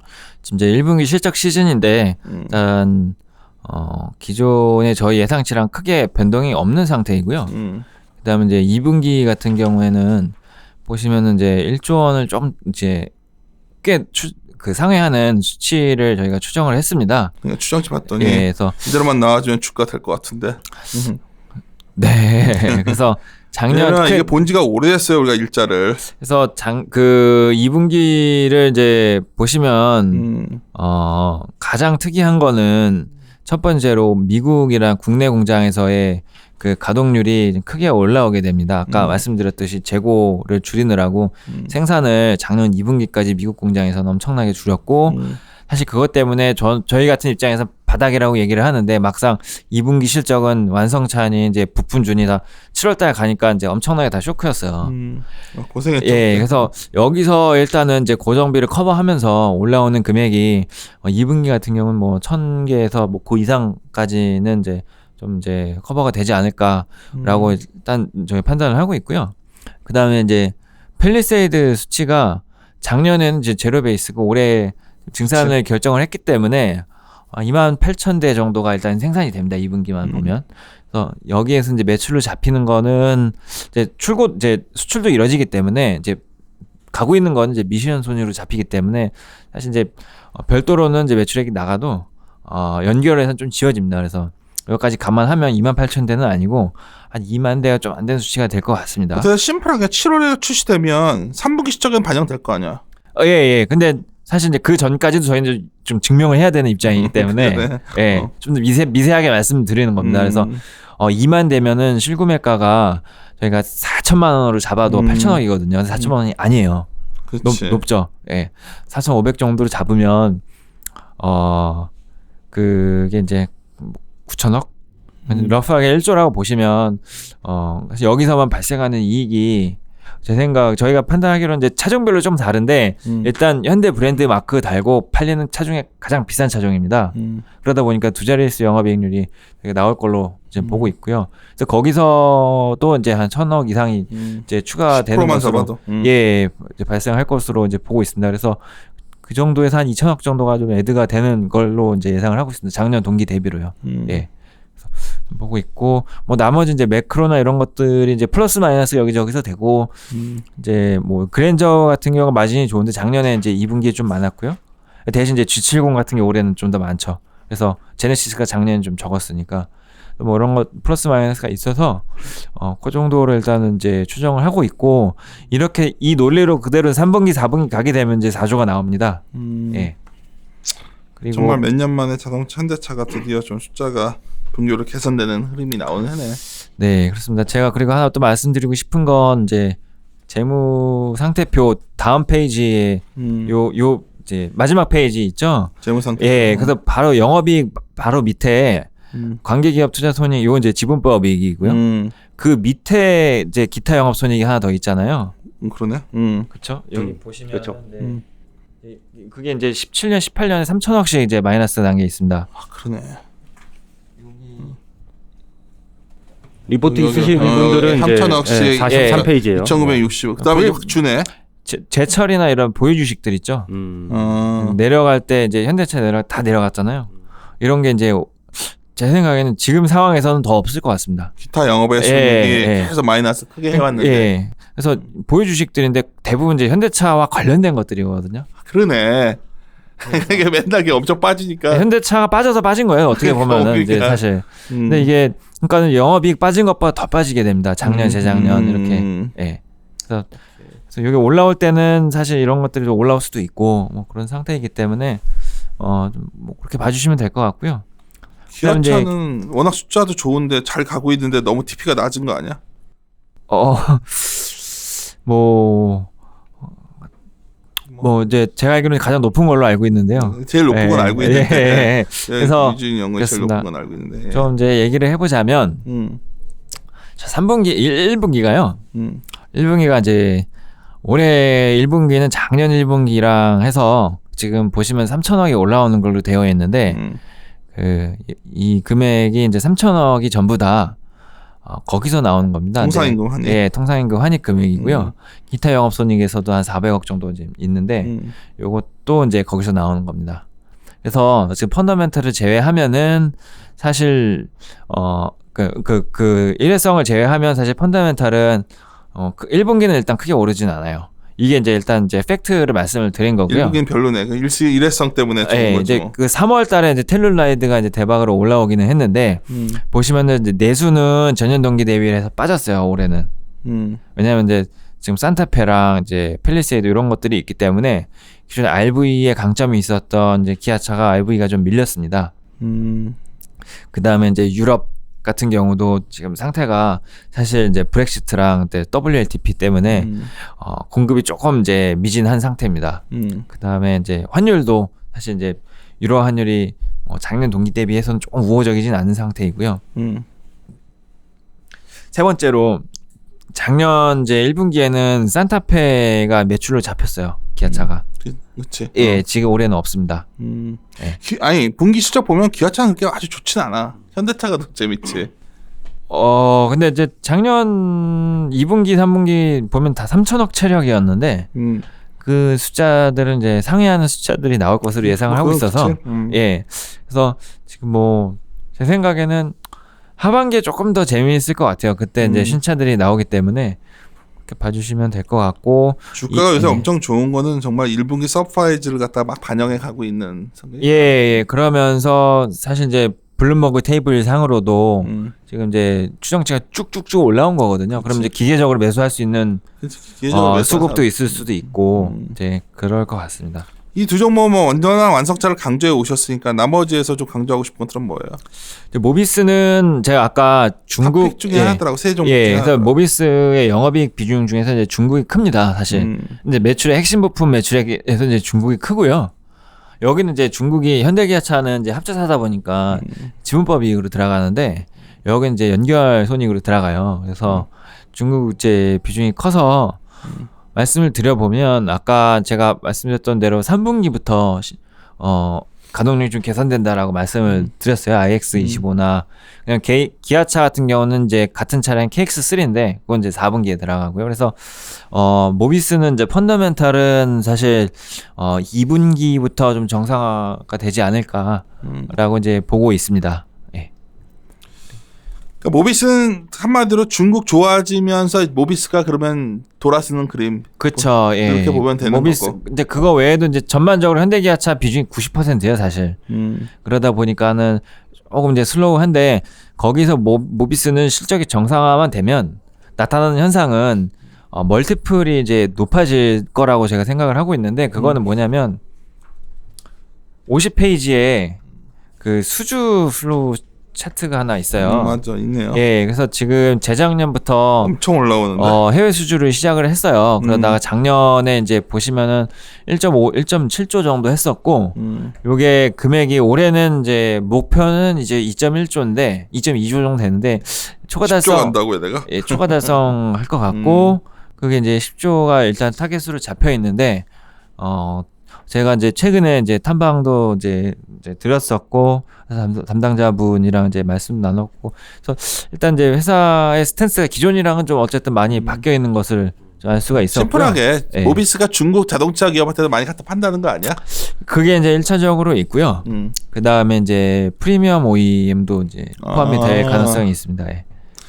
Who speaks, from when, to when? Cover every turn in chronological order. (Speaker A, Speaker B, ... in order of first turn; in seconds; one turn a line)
Speaker A: 0.4-7.5
Speaker B: 2.2-2.5
Speaker B: 7.5-7.8
Speaker A: 8.2-10.3
Speaker A: 10.9-13.1
Speaker A: 13.8-17.3
Speaker B: 17.4-21.2
Speaker A: 18.1-18.9
Speaker A: 21.9-24.3
Speaker B: 22.5-23.0
Speaker B: 23.7-26.0
Speaker A: 26.1-54.9
Speaker B: 30.1-30.6
Speaker B: 38.9-39.2
Speaker B: 41.5-41.7
Speaker B: 45.1-45.4
Speaker B: 54.8-56.7
Speaker A: 56.0-86.2
Speaker B: 67.1-67.6
Speaker B: 80.0-80.3
Speaker A: 86.9-99.3
Speaker B: 99.1-102.8
Speaker A: 103.2-116.9
Speaker B: 106.9-108.3
Speaker B: 110.0-110.6
Speaker B: 114.8-115.4
Speaker B: 117.3-117.8
Speaker A: 117.4-120.4
Speaker A: 121.2-121.9
Speaker A: 122.5-124.7
Speaker B: 125.3-125.6
Speaker A: 125.3-148.7
Speaker B: 133.1-133.3
Speaker B: 137.1-137.4
Speaker B: 140.6-140.9
Speaker B: 144.1-146.1
Speaker A: 149.2-154.3
Speaker B: 153.8-154.2
Speaker A: 154.9-159.9
Speaker B: 160.1-160.4
Speaker A: 160.6-179.2
Speaker B: 179.3-179.9
Speaker A: 181.2-181.6
Speaker B: 181.3-186.4
Speaker A: 186.7-189.8
Speaker A: 190.3-198.9
Speaker B: 193.2-193.6
Speaker B: 195.8-196.7
Speaker B: 199.1-199.4
Speaker A: 199.4-201.8
Speaker B: 201.6-202.1
Speaker A: 202.3-205.3
Speaker B: 205.6-206.5
Speaker A: 206.5-208.2
Speaker C: 206.9-207.8
Speaker A: 208.8-212.5
Speaker B: 212.6-213.2
Speaker C: 216.7-219.8
Speaker B: 216.9-221.3
Speaker A: 218.8-221.0
Speaker A: 221.6-223.7
Speaker C: 223.7-224.2
Speaker B: 224.1-224.8
Speaker A: 224.5-231.3
Speaker B: 231.4-234.3
Speaker A: 232.0-232.9
Speaker A: 233.7-238.5
Speaker B: 238.6-239.4
Speaker B: 240.0-241.8
Speaker A: 240.1-240.4
Speaker A: 241.7-250.3
Speaker B: 243.1-245.1
Speaker B: 247.8-249.3
Speaker A: 250.9-255.2
Speaker A: 255.8-257.8
Speaker B: 258.5-262.6
Speaker A: 258.6-259.1
Speaker A: 263.5-266.1
Speaker A: 268.0-273.7
Speaker B: 270.1-274.5
Speaker A: 274.3-275.8
Speaker B: 275.9-276.2
Speaker A: 277.2-278.8
Speaker B: 278.9-279.2
Speaker A: 279.5-280.5
Speaker A: 281.0-287.0
Speaker B: 286.9-287.2
Speaker A: 287.7-291.0
Speaker A: 291.6-300.4
Speaker B: 292.8-293.6
Speaker B: 294.8-295.1
Speaker B: 298.0-298.4
Speaker A: 301.0-313.8
Speaker B: 313.5-316.1
Speaker A: 315.4-323.3
Speaker B: 319.5-319.8
Speaker B: 323.6-324.0
Speaker A: 324.1-332.3
Speaker B: 332.6-333.2
Speaker A: 333.9-349.8
Speaker B: 339.9-340.3
Speaker B: 343.1-343.4
Speaker B: 349.9-350.2
Speaker A: 352.1-352.9
Speaker A: 353.5-358.0
Speaker B: 357.6-359.2
Speaker A: 358.9-360.2
Speaker B: 360.4-365.3
Speaker A: 366.1-371.5
Speaker B: 371.5-371.9
Speaker A: 372.2-379.6
Speaker B: 375.0-376.4
Speaker A: 380.2-383.8
Speaker B: 382.2-382.6
Speaker A: 384.5-386.9
Speaker B: 386.1-391.3
Speaker A: 390.8-399.6
Speaker B: 395.0-395.3
Speaker B: 397.9-398.3
Speaker B: 399.8-402.4
Speaker A: 400.3-403.6
Speaker B: 403.9-408.4
Speaker A: 408.9-419.3
Speaker B: 411.0-412.9
Speaker B: 415.9-416.4
Speaker A: 420.0-430.0
Speaker B: 422.9-423.3
Speaker A: 430.7-453.9
Speaker B: 438.5-438.8
Speaker B: 451.8-452.1
Speaker B: 455.6-462.6
Speaker A: 460.8-466.2
Speaker B: 466.3-466.7
Speaker A: 466.8-478.8
Speaker A: 480.5-481.6
Speaker A: 482.2-485.2
Speaker B: 484.8-485.8
Speaker A: 485.7-487.9
Speaker B: 487.8-488.8
Speaker A: 488.6-507.2
Speaker B: 490.4-490.8
Speaker B: 494.9-495.3
Speaker B: 501.2-503.0
Speaker B: 503.7-504.2
Speaker A: 507.8-521.4
Speaker B: 518.5-518.8
Speaker B: 520.3-524.0
Speaker A: 524.0-530.8
Speaker B: 526.0-526.3
Speaker B: 529.2-530.2